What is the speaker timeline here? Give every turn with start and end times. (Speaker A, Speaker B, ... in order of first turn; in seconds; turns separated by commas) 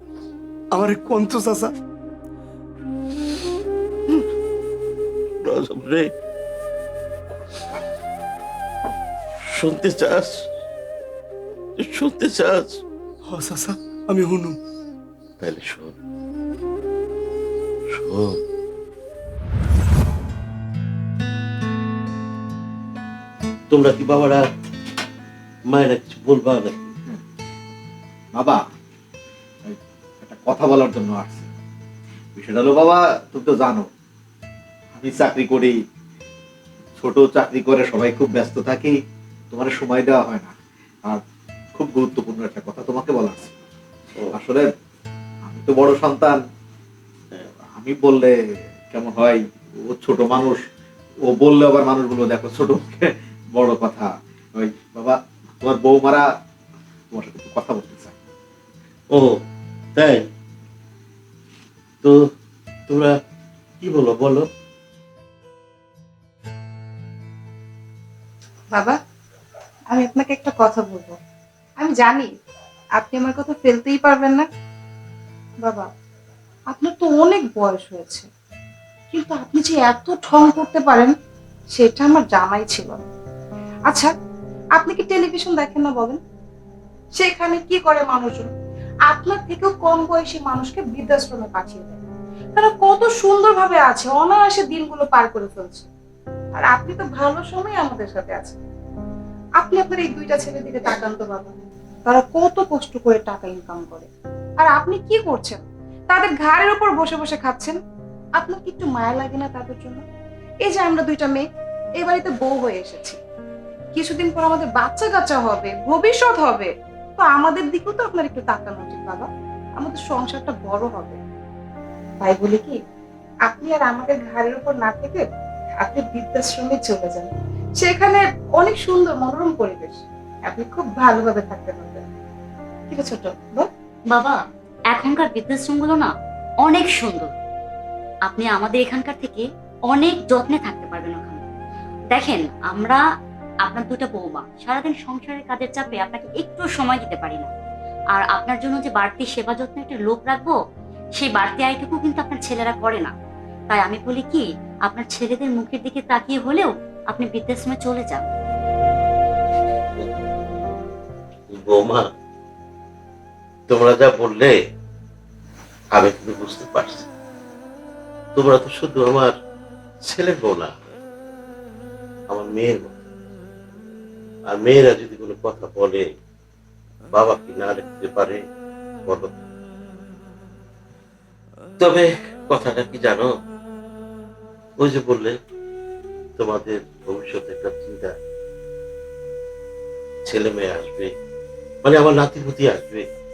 Speaker A: 0.7-1.7, Speaker B: 5.4-6.1, Speaker B: 9.5-10.4, Speaker B: 11.8-12.8, Speaker A: 13.3-14.6, Speaker B: 15.4-15.9, Speaker B: 17.9-18.4, Speaker B: 23.7-24.4, Speaker B: 25.7-26.9, Speaker C: 28.3-28.6, Speaker C: 29.6-31.5, Speaker C: 32.4-33.9, Speaker C: 35.0-35.8, Speaker C: 37.0-39.0, Speaker C: 39.5-40.5, Speaker C: 41.7-43.6, Speaker C: 44.3-44.7, Speaker C: 45.4-46.4, Speaker C: 47.3-48.3, Speaker C: 48.9-50.6, Speaker C: 51.2-56.3, Speaker C: 57.1-58.1, Speaker B: 59.1-59.4, Speaker B: 60.0-60.2, Speaker B: 62.9-63.1, Speaker B: 63.8-64.5, Speaker D: 68.7-69.0, Speaker D: 69.9-71.2, Speaker D: 71.8-72.3, Speaker D: 73.0-74.5, Speaker D: 75.6-75.9, Speaker D: 76.7-78.3, Speaker D: 79.1-81.1, Speaker D: 81.7-83.0, Speaker D: 83.9-84.1, Speaker D: 84.8-86.2, Speaker D: 87.2-88.5, Speaker D: 89.0-95.9, Speaker D: 96.5-98.6, Speaker D: 99.6-101.5, Speaker D: 102.0-107.8, Speaker D: 108.4-110.0, Speaker D: 110.6-111.5, Speaker D: 112.0-113.2, Speaker D: 113.9-121.2, Speaker D: 122.2-122.8, Speaker D: 123.5-125.2, Speaker D: 125.8-132.0, Speaker D: 132.9-133.7, Speaker E: 134.1-136.1, Speaker E: 136.6-137.3, Speaker E: 138.2-141.4, Speaker E: 142.1-143.0, Speaker E: 143.6-147.5, Speaker E: 148.1-150.6, Speaker E: 151.2-153.1, Speaker E: 153.7-158.3, Speaker B: 161.5-162.1, Speaker B: 163.7-164.5, Speaker B: 165.9-167.1, Speaker B: 168.3-169.3, Speaker B: 170.0-170.7, Speaker B: 172.3-172.9, Speaker B: 174.5-176.1, Speaker B: 177.1-178.4, Speaker B: 179.1-179.3, Speaker B: 181.8-183.3, Speaker B: 184.8-185.4, Speaker B: 186.4-188.2, Speaker B: 190.2-191.1, Speaker B: 191.8-193.0